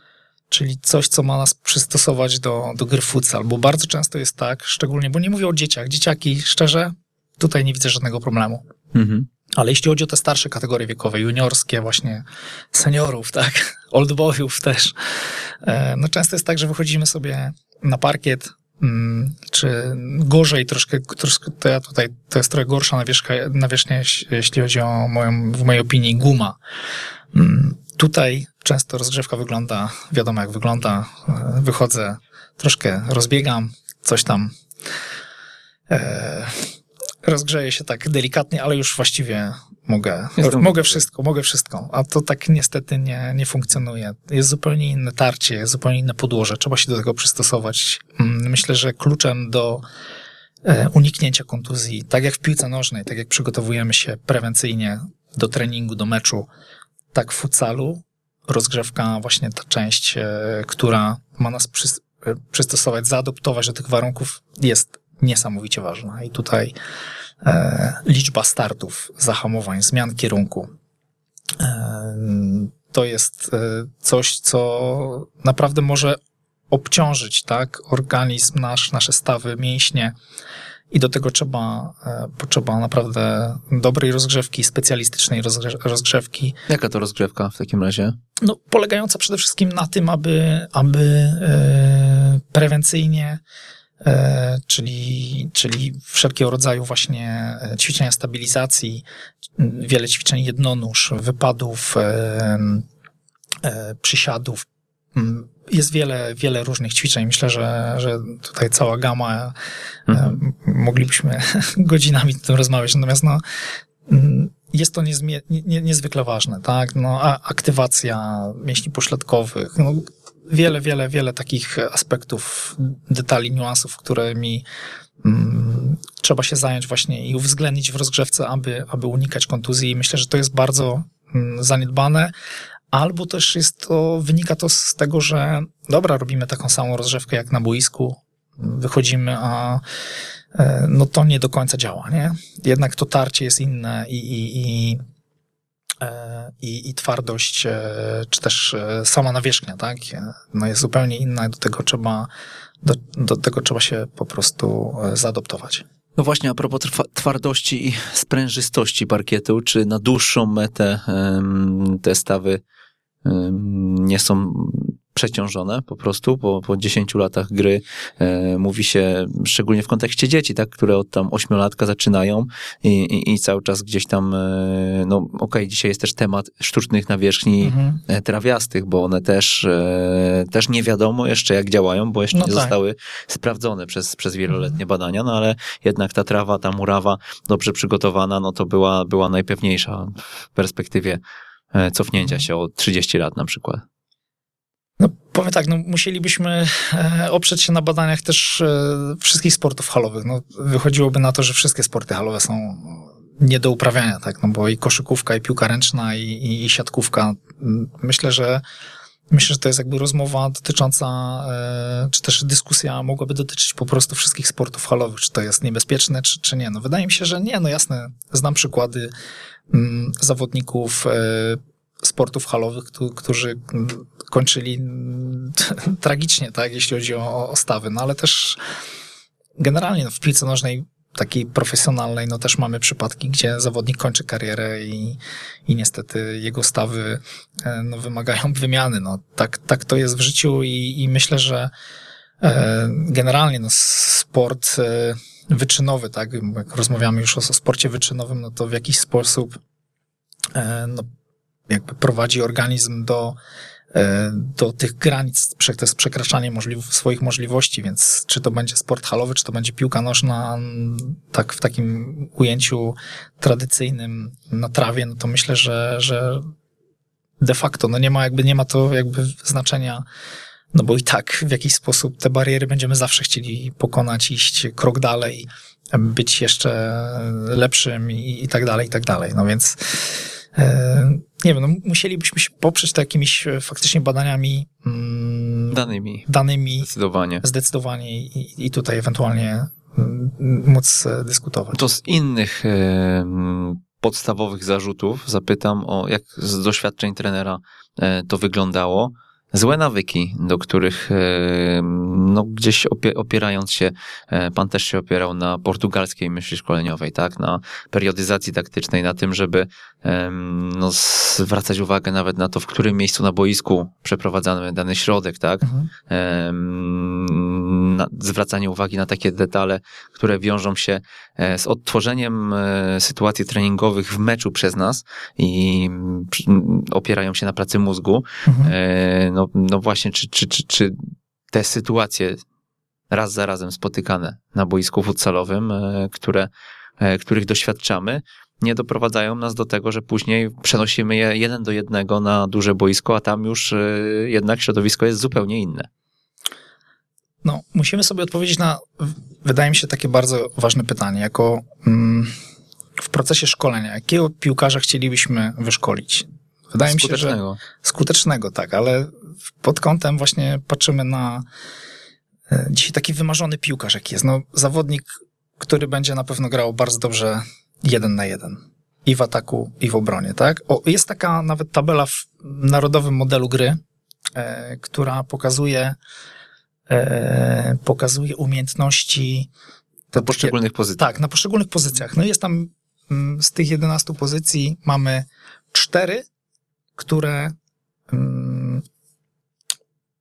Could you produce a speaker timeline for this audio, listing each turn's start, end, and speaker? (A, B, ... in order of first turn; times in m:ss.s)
0:00.5-0:08.6 A
0:08.9-0:09.3 B
0:09.6-0:26.6 A
0:27.3-0:34.5 A
0:35.9-0:36.7 A
0:37.2-0:49.8 A
0:40.4-0:41.0 B
0:50.6-0:56.5 A
0:57.1-1:06.8 A
1:07.4-1:10.7 A
1:11.6-1:16.2 A
1:16.7-1:20.1 A
1:20.9-1:26.6 A
1:26.7-1:28.2 B
1:28.4-1:33.4 A
1:34.0-1:39.0 A
1:39.6-1:42.9 A
1:43.6-1:49.6 A
1:50.1-1:50.4 B
1:50.1-1:53.4 A
1:54.1-2:04.6 A
2:05.2-2:12.3 A
2:12.9-2:19.8 A
2:20.5-2:25.0 A
2:26.0-2:32.3 A
2:32.8-2:35.8 A
2:36.2-2:42.6 B
2:43.2-3:11.2 B
2:57.6-2:58.0 A
3:02.3-3:02.8 A
3:04.5-3:04.8 A
3:11.7-3:13.8 B
3:15.0-3:28.6 A
3:29.3-3:39.1 A
3:39.7-3:48.6 A
3:49.6-4:01.7 A
4:02.4-4:09.6 A
4:10.5-4:11.1 A
4:11.7-4:13.4 A
4:13.9-4:26.5 A
4:27.4-4:30.0 A
4:30.7-4:51.8 A
4:45.7-4:46.3 B
4:46.8-4:47.4 B
4:51.7-5:32.4 B
5:15.6-5:15.9 A
5:28.4-5:28.7 A
5:33.1-5:45.9 B
5:47.4-5:52.3 A
5:53.0-6:01.4 A
5:56.9-5:57.6 B
6:02.5-6:13.8 A
6:14.4-6:16.0 A
6:16.9-6:19.5 A
6:20.1-6:26.2 A
6:20.2-6:21.0 B
6:27.0-6:27.6 A
6:28.1-6:28.8 A